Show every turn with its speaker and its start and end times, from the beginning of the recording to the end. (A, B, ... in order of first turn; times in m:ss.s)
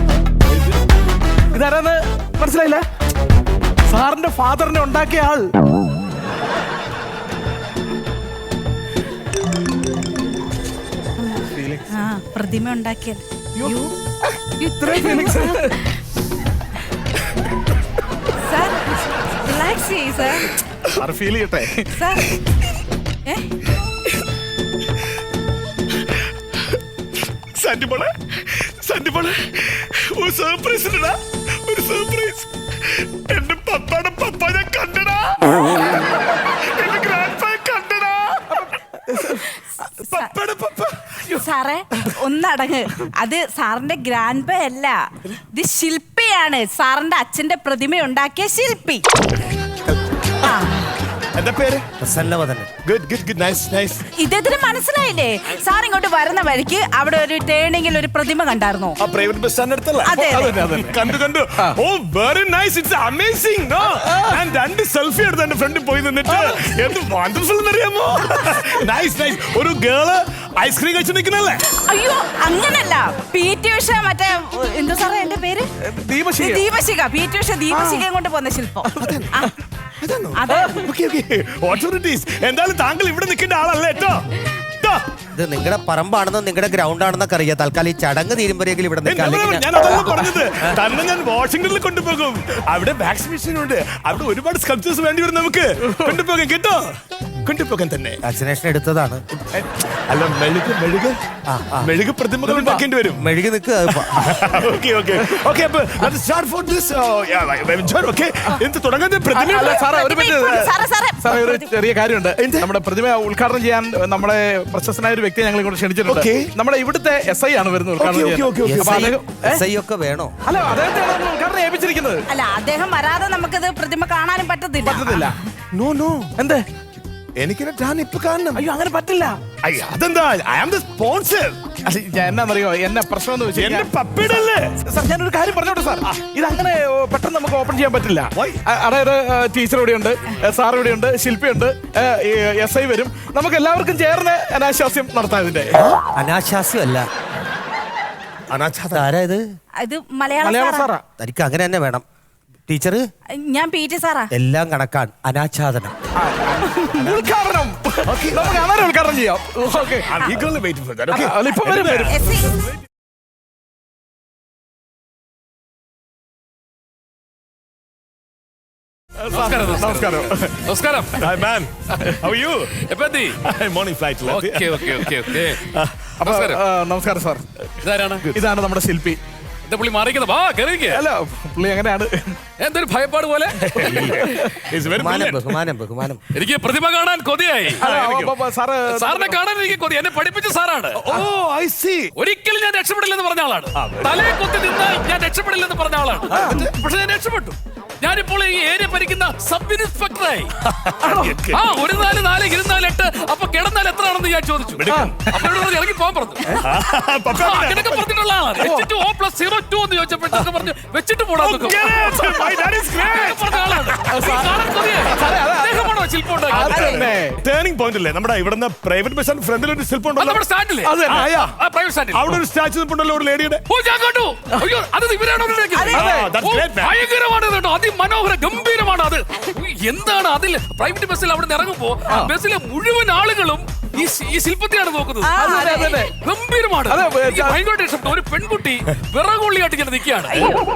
0:01.5-0:02.8 A
0:03.9-0:05.6 A
0:11.2-0:13.9 B
0:11.5-0:11.9 A
0:13.6-0:13.8 A
0:14.4-0:15.8 A
0:14.8-0:15.9 B
0:18.4-0:20.6 B
0:21.0-0:22.0 A
0:21.9-0:22.4 B
0:27.6-0:39.0 C
0:39.1-0:39.4 A
0:39.2-0:40.3 B
0:40.0-0:41.2 C
0:41.3-0:49.0 B
0:49.8-0:50.4 C
0:50.4-0:50.8 B
0:51.3-0:51.9 C
0:52.0-0:52.7 D
0:52.8-0:54.0 C
0:54.1-0:59.0 B
0:59.0-1:11.6 C
1:00.0-1:00.7 B
1:00.2-1:01.0 A
1:04.0-1:04.4 A
1:06.3-1:06.6 A
1:11.7-1:15.7 B
1:15.8-1:16.7 A
1:16.4-1:19.5 B
1:17.7-1:18.1 A
1:18.8-1:19.5 A
1:19.0-1:19.3 C
1:20.0-1:25.1 C
1:20.4-1:20.8 B
1:20.5-1:20.8 A
1:25.3-1:30.1 D
1:29.1-1:38.2 C
1:35.9-1:36.2 A
1:38.2-1:39.2 D
1:39.4-1:41.2 C
1:41.5-1:41.9 D
1:41.8-1:43.3 C
1:42.4-1:42.9 A
1:43.2-1:44.3 D
1:44.0-1:49.6 C
1:49.3-1:51.7 B
1:49.4-1:59.6 A
1:52.4-1:52.7 C
1:56.1-1:56.5 C
1:58.0-1:59.2 C
1:58.6-2:00.3 D
2:00.4-2:02.2 A
2:02.3-2:05.3 B
2:04.8-2:05.3 A
2:05.8-2:06.3 C
2:06.4-2:06.7 A
2:07.4-2:08.6 C
2:08.6-2:09.4 A
2:09.6-2:11.8 C
2:11.8-2:25.8 A
2:13.6-2:14.8 C
2:18.4-2:18.6 C
2:26.2-2:27.1 D
2:28.5-2:29.1 C
2:28.9-2:29.4 D
2:29.8-2:30.9 B
2:30.4-2:31.0 A
2:31.2-2:32.0 D
2:32.7-2:33.0 D
2:33.4-2:34.3 B
2:34.3-2:35.9 D
2:36.2-2:40.1 A
2:38.0-2:38.8 C
2:40.0-2:42.2 C
2:41.1-2:42.4 A
2:42.0-2:42.6 B
2:49.3-2:51.3 E
2:49.3-2:50.6 A
2:51.2-2:52.8 C
2:52.8-2:53.4 E
2:53.4-2:56.3 C
2:54.2-2:55.6 E
2:56.2-2:56.6 E
2:56.2-2:57.7 A
2:57.8-2:58.4 E
2:58.3-2:59.2 A
2:59.6-3:01.0 E
3:00.9-3:02.4 A
3:02.6-3:04.1 E
3:03.6-3:05.6 C
3:03.8-3:04.4 D
3:04.2-3:04.6 A
3:04.9-3:06.2 D
3:06.3-3:07.9 E
3:07.8-3:09.4 A
3:07.8-3:08.4 C
3:08.9-3:11.2 E
3:11.0-3:12.1 C
3:12.2-3:20.5 E
3:13.8-3:14.2 C
3:16.4-3:16.7 C
3:20.6-3:21.9 C
3:21.0-3:21.5 A
3:21.5-3:26.6 E
3:24.8-3:25.3 C
3:24.9-3:25.5 A
3:26.6-3:28.1 C
3:27.3-3:36.9 E
3:28.6-3:28.9 A
3:31.4-3:34.3 C
3:32.0-3:32.4 A
3:34.1-3:37.4 A
3:36.5-3:40.4 C
3:36.8-3:37.1 B
3:40.2-3:42.4 E
3:40.8-3:41.4 A
3:41.0-3:41.6 C
3:42.1-3:43.6 C
3:43.7-3:55.4 E
3:45.7-3:46.1 B
3:45.9-3:47.0 C
3:46.0-3:46.4 A
3:55.2-3:56.1 B
3:55.4-3:56.2 A
3:56.0-4:00.6 E
3:56.9-3:57.6 A
4:00.3-4:00.7 B